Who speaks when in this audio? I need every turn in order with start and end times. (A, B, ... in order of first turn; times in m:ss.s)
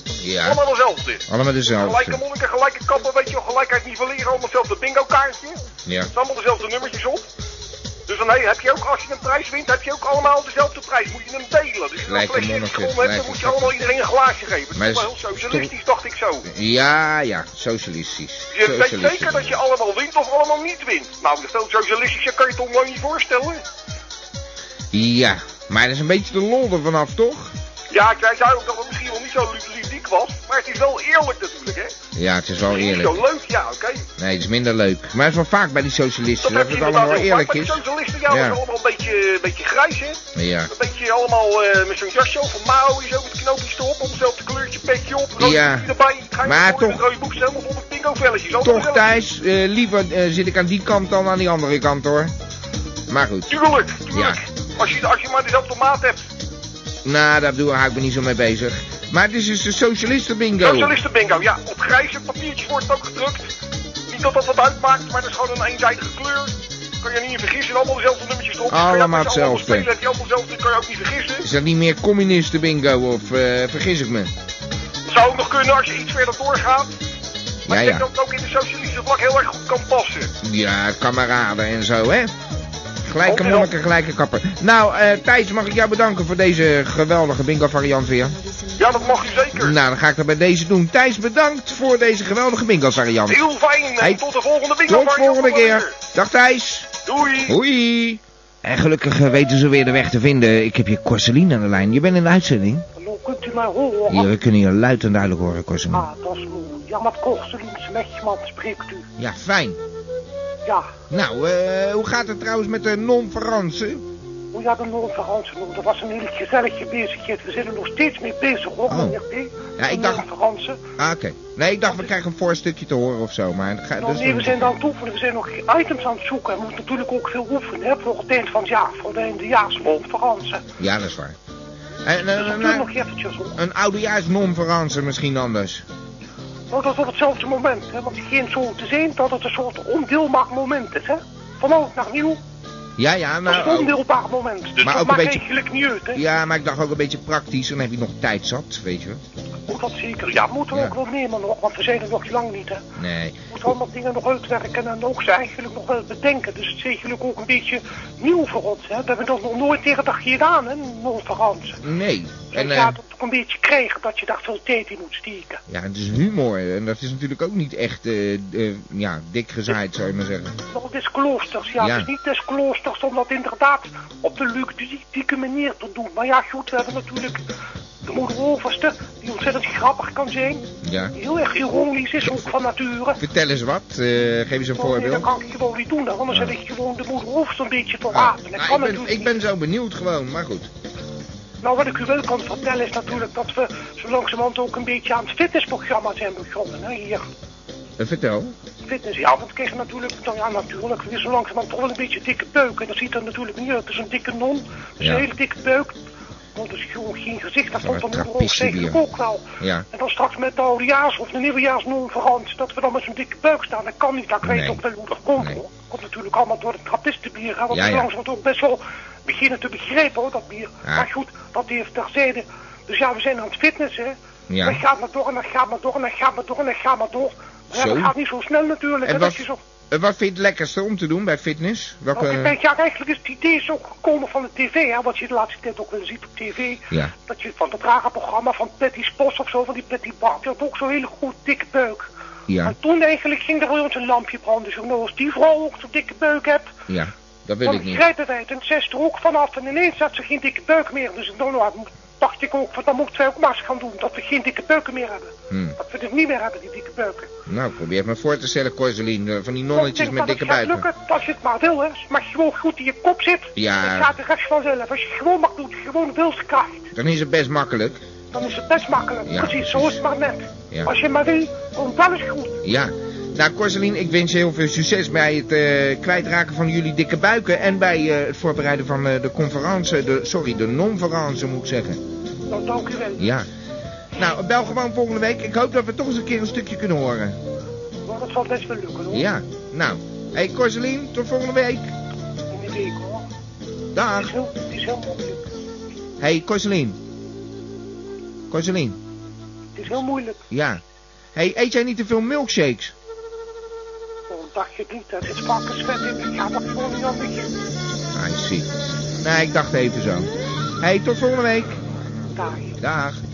0:00.2-0:00.6 A
0:00.4-0:01.2 B
0:01.3-0:02.2 A
0:01.8-0:05.6 B
0:05.9-0:06.1 A
0:06.1-0:07.3 B
0:08.1-0:16.4 B
0:12.0-0:13.8 A
0:14.8-0:15.7 A
0:16.4-0:19.6 A
0:18.5-0:23.6 B
0:24.9-0:27.5 A
0:27.9-0:31.9 B
0:32.2-0:33.3 A
0:32.7-0:34.0 B
0:34.2-0:38.6 A
0:36.4-0:49.0 B
0:40.4-0:40.7 A
0:45.4-0:45.9 A
0:46.4-0:47.0 A
0:48.6-0:52.3 A
0:53.1-0:54.4 A
0:53.5-0:56.2 B
0:57.0-1:01.0 A
1:00.6-1:03.5 B
1:04.1-1:11.4 B
1:08.7-1:09.9 A
1:11.4-1:14.3 A
1:15.1-1:16.9 B
1:17.7-1:18.1 A
1:17.7-1:20.3 B
1:20.4-1:22.3 A
1:23.1-1:28.4 A
1:23.2-1:23.7 B
1:28.8-1:29.7 B
1:29.5-1:33.4 A
1:33.3-1:35.9 B
1:34.9-1:36.9 A
1:37.1-1:37.5 B
1:37.5-1:42.9 A
1:43.0-1:44.3 C
1:44.1-1:46.1 A
1:45.9-1:49.1 C
1:49.2-1:49.8 A
1:51.1-1:54.0 A
1:54.5-2:00.8 C
1:58.9-1:59.2 A
1:59.8-2:00.3 A
2:01.0-2:04.7 A
2:04.0-2:10.6 C
2:10.8-2:11.4 A
2:12.0-2:12.9 A
2:12.4-2:13.6 C
2:13.6-2:15.8 A
2:16.7-2:22.4 C
2:23.0-2:24.0 A
2:23.5-2:26.2 C
2:24.8-2:25.4 A
2:26.1-2:29.2 A
2:29.7-2:32.8 C
2:33.0-2:33.5 A
2:33.5-2:41.8 C
2:41.8-2:43.0 A
2:42.5-2:45.6 C
2:45.7-2:50.6 A
2:50.7-2:57.4 C
2:51.8-2:52.1 A
2:58.0-3:03.2 C
3:00.8-3:01.2 A
3:03.2-3:05.3 A
3:04.8-3:09.3 C
3:08.1-3:10.7 A
3:11.6-3:17.2 C
3:18.0-3:18.5 A
3:18.8-3:26.0 C
3:25.0-3:25.3 A
3:26.6-3:49.6 C
3:27.8-3:29.0 A
3:29.6-3:29.9 A
3:34.4-3:34.8 A
3:37.7-3:38.1 A
3:44.5-3:44.8 A
3:47.7-3:48.1 A
3:49.0-3:52.6 A
3:52.2-4:02.1 C
4:02.5-4:02.8 A
4:02.6-4:06.7 C
4:06.9-4:08.0 A
4:07.6-4:17.3 C
4:15.5-4:15.8 A
4:17.5-4:20.9 A
4:19.7-4:26.9 C
4:23.6-4:24.1 A
4:27.0-4:28.0 A
4:28.3-4:32.6 C
4:29.3-4:30.0 A
4:32.6-4:42.0 A
4:42.5-4:43.2 C
4:43.2-4:43.5 A
4:44.2-4:47.4 A
4:48.1-4:49.3 C
4:49.1-4:51.9 A
4:52.5-4:53.3 C
4:53.9-4:54.3 A
4:54.2-4:55.4 C
4:56.2-4:57.0 A
4:58.5-4:59.0 A
4:59.8-5:00.4 C
5:00.5-5:00.8 A
5:01.4-5:02.9 A
5:04.3-5:07.5 C
5:08.1-5:08.7 A
5:09.2-5:10.3 A
5:10.8-5:11.8 A
5:12.4-5:12.8 C
5:12.8-5:13.2 A